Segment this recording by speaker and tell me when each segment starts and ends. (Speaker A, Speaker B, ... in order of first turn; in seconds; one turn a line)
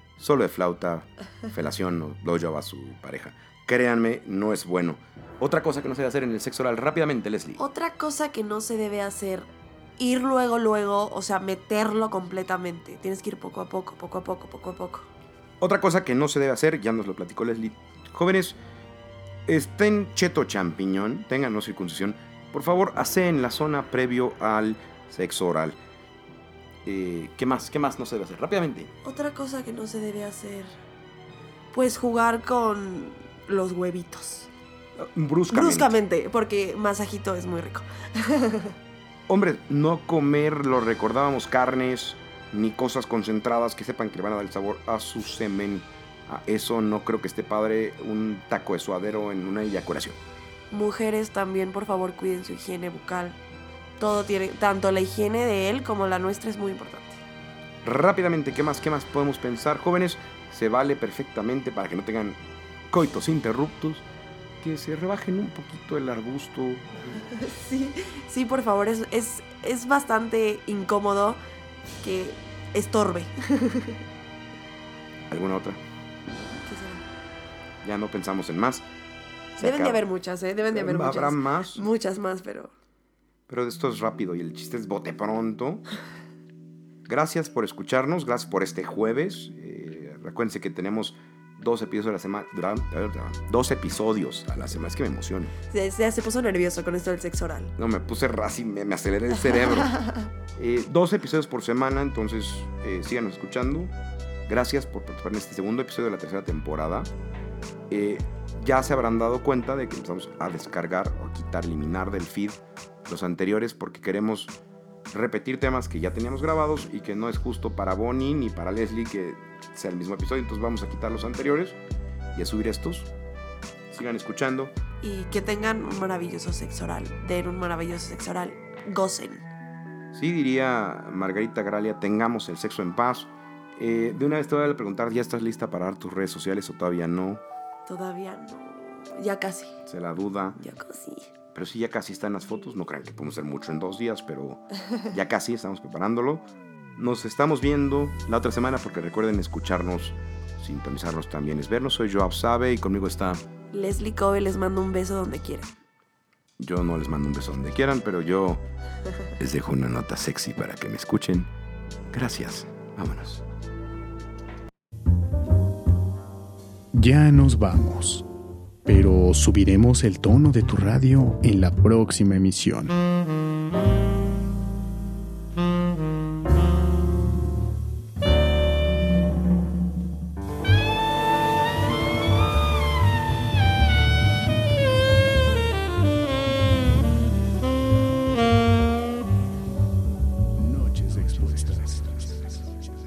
Speaker A: 0.2-7.6
Speaker B: 7.6-15.1
Speaker A: 15.6-18.6
Speaker A: 19.5-25.8
Speaker A: 26.9-28.9
Speaker B: 29.0-30.8
Speaker B: 31.7-34.5
Speaker A: 35.0-35.9
Speaker B: 35.5-38.8
Speaker A: 39.3-50.2
Speaker B: 50.7-53.4
Speaker B: 54.0-57.2
Speaker A: 57.8-64.1
Speaker A: 64.6-67.2
Speaker B: 67.1-71.4
Speaker B: 72.0-74.0
Speaker A: 75.3-75.8
Speaker B: 76.6-77.1
Speaker A: 77.8-78.9
Speaker A: 79.6-80.0
Speaker B: 79.6-82.7
Speaker A: 80.7-81.8
Speaker A: 83.5-85.8
Speaker A: 87.1-95.5
Speaker B: 95.7-97.8
Speaker A: 97.8-100.0
Speaker A: 100.5-103.9
Speaker A: 104.5-107.1
Speaker A: 107.9-114.6
Speaker A: 115.1-121.8
Speaker A: 122.3-123.1
Speaker A: 123.9-124.8
Speaker B: 125.0-129.5
Speaker A: 130.1-137.4
Speaker B: 137.9-139.8
Speaker A: 139.9-140.6
Speaker B: 140.6-141.3
Speaker A: 141.5-153.4
Speaker B: 153.7-155.8
Speaker A: 156.6-158.6
Speaker A: 159.4-161.5
Speaker A: 162.1-163.4
Speaker C: 166.9-168.2
Speaker C: 168.8-173.0
Speaker C: 190.6-192.4